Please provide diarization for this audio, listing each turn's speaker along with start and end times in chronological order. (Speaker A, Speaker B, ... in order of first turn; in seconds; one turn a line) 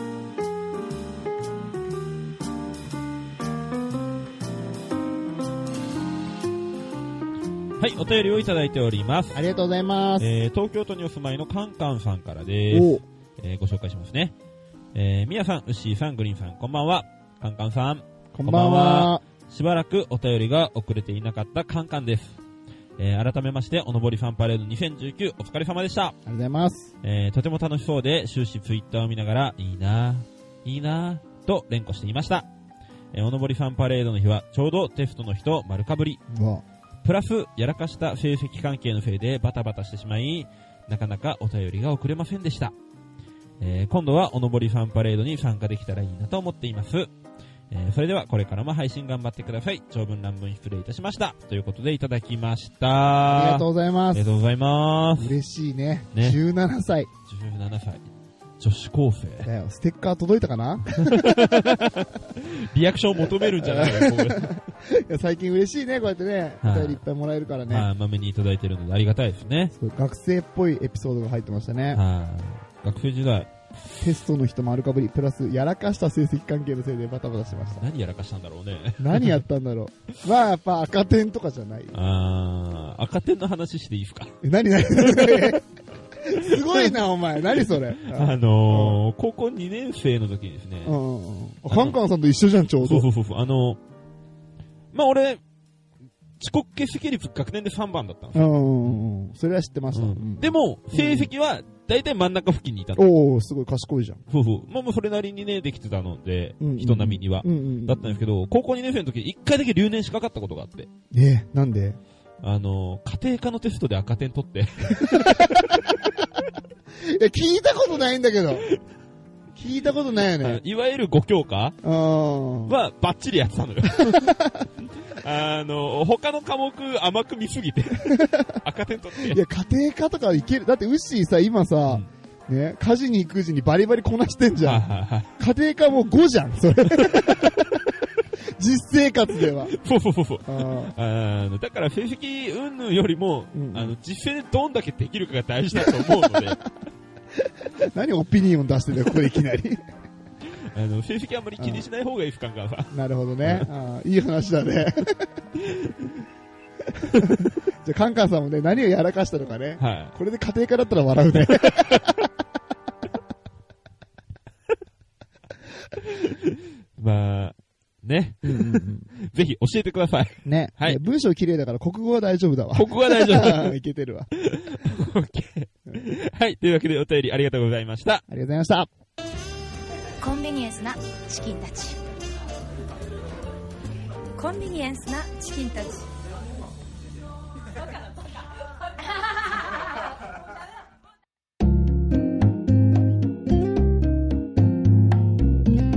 Speaker A: 7.8-9.4
Speaker B: 9.3-10.3
Speaker A: 10.2-14.3
Speaker B: 12.7-13.0
Speaker A: 14.9-22.4
Speaker B: 18.3-19.2
Speaker A: 23.0-26.2
Speaker B: 26.2-26.9
Speaker A: 27.0-32.5
Speaker A: 33.1-36.2
Speaker B: 36.3-36.6
Speaker A: 37.0-42.7
Speaker A: 43.6-47.1
Speaker A: 47.7-55.3
Speaker B: 53.3-54.2
Speaker B: 55.2-57.1
Speaker A: 56.1-56.4
Speaker A: 57.3-58.1
Speaker A: 58.6-59.5
Speaker B: 59.4-61.6
Speaker A: 60.9-64.5
Speaker B: 63.4-67.8
Speaker A: 66.6-67.0
Speaker A: 67.7-69.7
Speaker B: 69.7-72.0
Speaker A: 71.9-73.5
Speaker B: 74.0-77.8
Speaker A: 77.8-79.4
Speaker B: 79.0-81.9
Speaker A: 81.9-85.6
Speaker B: 84.4-85.6
Speaker B: 86.2-89.0
Speaker A: 86.3-87.0
Speaker A: 87.5-90.9
Speaker B: 90.8-93.1
Speaker A: 91.7-92.0
Speaker A: 92.8-93.8
Speaker A: 94.9-95.4
Speaker A: 96.4-98.5
Speaker B: 98.3-101.3
Speaker A: 99.9-103.0
Speaker B: 103.0-104.2
Speaker A: 104.3-110.9
Speaker B: 106.6-108.2
Speaker B: 111.1-112.0
Speaker A: 112.4-115.9
Speaker B: 115.0-115.8
Speaker B: 117.0-118.7
Speaker B: 119.5-120.6
Speaker A: 120.4-121.8
Speaker B: 121.8-122.8
Speaker A: 122.7-129.4
Speaker B: 124.0-124.7
Speaker B: 128.1-128.6
Speaker B: 129.2-137.6
Speaker A: 134.6-135.3
Speaker A: 136.9-137.7
Speaker B: 138.6-139.7
Speaker A: 139.7-146.6
Speaker B: 140.4-140.9
Speaker B: 143.5-143.9
Speaker B: 146.0-146.4
Speaker B: 147.4-149.8
Speaker A: 150.7-152.9
Speaker B: 151.6-151.8
Speaker B: 152.9-155.3
Speaker A: 153.4-153.7
Speaker A: 155.6-156.1
Speaker B: 157.0-162.2
Speaker A: 159.8-160.1
Speaker A: 161.4-162.1
Speaker A: 166.0-171.0
Speaker B: 168.4-169.1
Speaker B: 170.4-174.3
Speaker A: 172.7-173.8
Speaker A: 174.3-178.2
Speaker B: 178.3-178.9
Speaker C: 180.2-182.0
Speaker C: 184.3-186.1